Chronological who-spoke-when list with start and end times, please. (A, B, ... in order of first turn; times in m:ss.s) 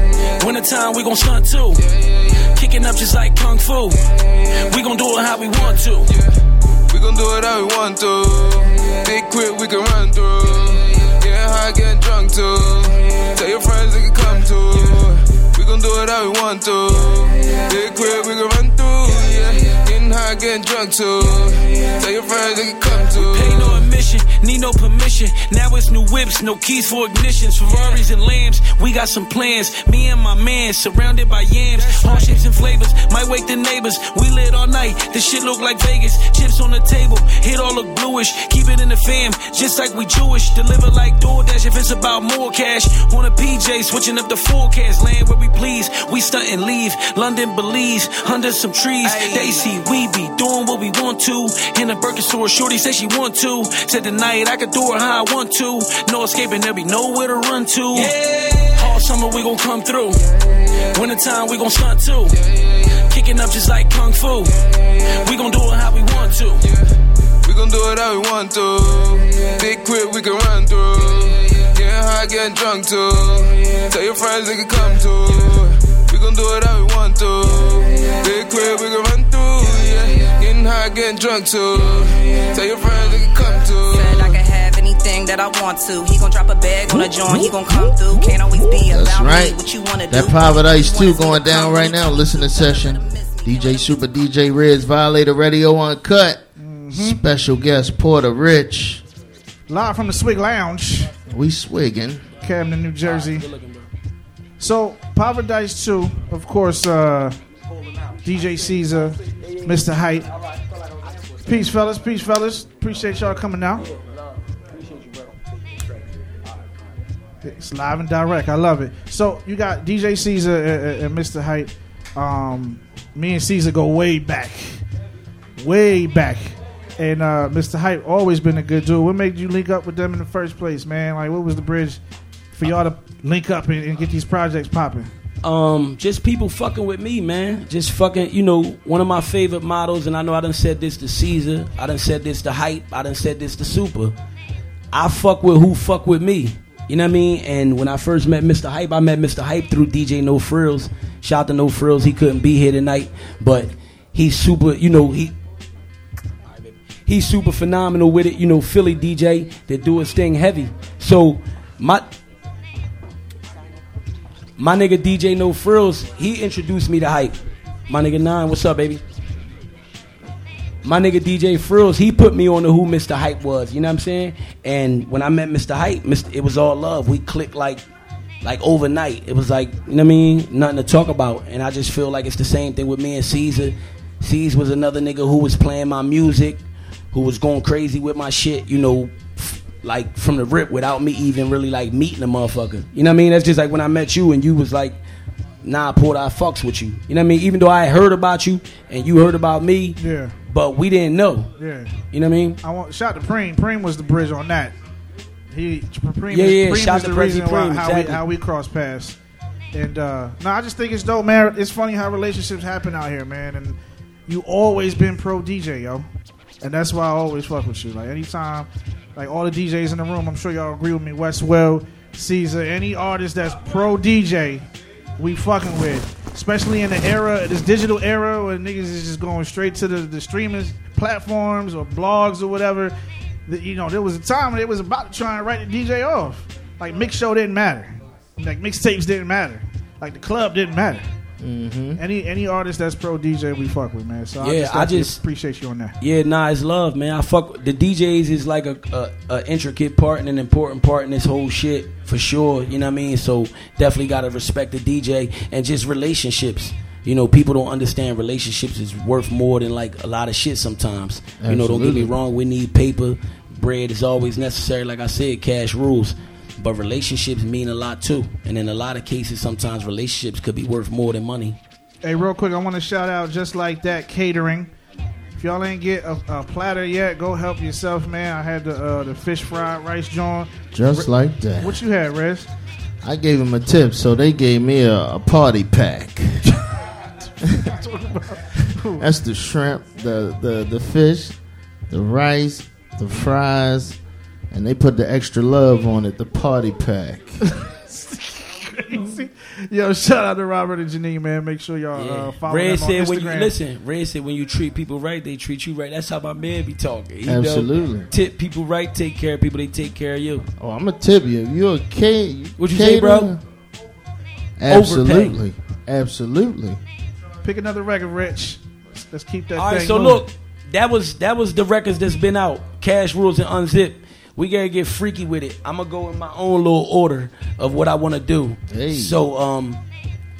0:00.4-0:01.1 A
0:01.8-0:02.6 B
0:02.6-0:04.0 A
0:04.7-0:06.1 A
0:05.6-0:06.3 B
0:06.9-0:23.9 B
0:23.2-0:23.8 C
0:23.2-0:58.2 A
0:49.0-0:49.7 C
0:58.0-0:58.9 B
0:58.7-1:00.2 A
1:00.5-1:01.0 B
1:00.9-1:02.3 A
1:02.5-1:02.9 B
1:03.1-1:04.5 A
1:05.0-1:05.3 B
1:05.3-1:06.6 A
1:07.4-1:24.4 B
1:23.9-1:34.0 D
1:26.9-1:39.0 E
1:36.6-1:37.2 F
1:39.7-1:41.1 F
1:41.3-1:42.3 E
1:42.4-1:43.5 F
1:43.0-1:43.9 C
1:44.6-1:47.4 F
1:48.2-1:50.3 F
1:51.5-1:53.8 F
1:53.8-1:54.2 C
1:54.8-1:56.0 C
1:57.4-2:04.8 F
2:05.6-2:12.0 F
2:12.5-2:15.1 F
2:15.4-2:24.2 C
2:24.9-2:35.4 C
2:36.5-2:42.1 C
2:44.6-2:49.0 C
2:50.8-2:57.8 C
2:58.4-3:15.0 C
3:15.6-3:21.5 C
3:20.0-3:20.4 F
3:21.6-3:22.0 F
3:22.1-3:22.6 C
3:22.6-3:24.8 F
3:25.5-3:29.2 F
3:26.3-3:28.2 C
3:29.7-3:33.8 F
3:34.3-3:36.1 F
3:36.6-3:44.7 F
3:45.2-3:52.9 F
3:53.5-4:01.0 F
4:01.4-4:02.0 E
4:02.0-4:06.0 F
4:04.4-4:05.2 C
4:06.0-4:31.6 C
4:21.4-4:22.2 E
4:32.0-4:34.7 F
4:35.4-4:42.5 F
4:40.7-4:41.8 E
4:43.0-4:46.4 E
4:47.4-4:49.0 F
4:49.0-4:51.4 E
4:51.9-4:54.0 E
4:54.5-4:57.4 E
4:57.9-5:03.5 F
5:02.0-5:10.5 C
5:07.2-5:08.1 E
5:10.6-5:13.4 E
5:12.6-5:13.3 C
5:14.6-5:16.8 E
5:14.7-5:15.4 C
5:17.4-5:20.3 F
5:19.6-5:29.8 C
5:28.7-5:29.2 E